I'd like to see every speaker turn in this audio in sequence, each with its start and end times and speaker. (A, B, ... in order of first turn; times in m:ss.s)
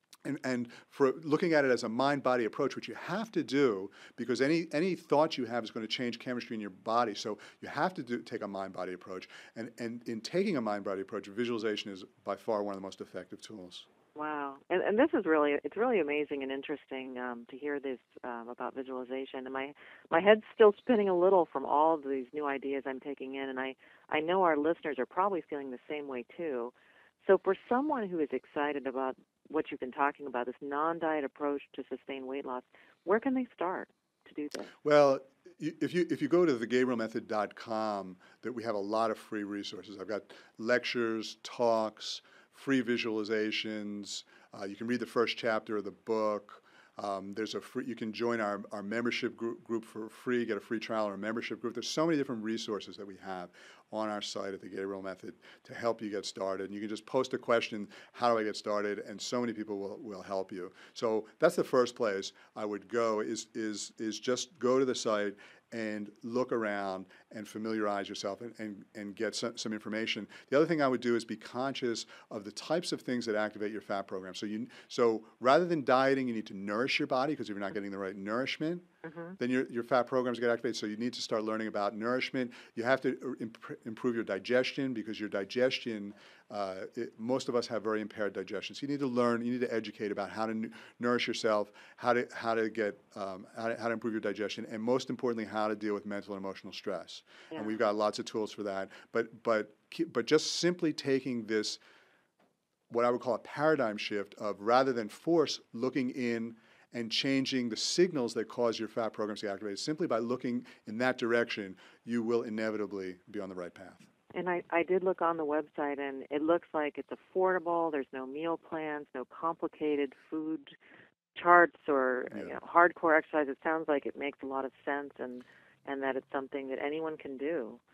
0:00.2-0:13.9 A
0:14.1-0:34.7 B
0:34.8-1:18.9 A
1:19.0-1:19.4 B
1:19.4-1:41.8 A
1:37.5-1:37.8 B
1:42.9-1:54.1 A
1:54.3-2:00.7 B
2:01.4-2:07.8 B
2:02.3-2:02.6 A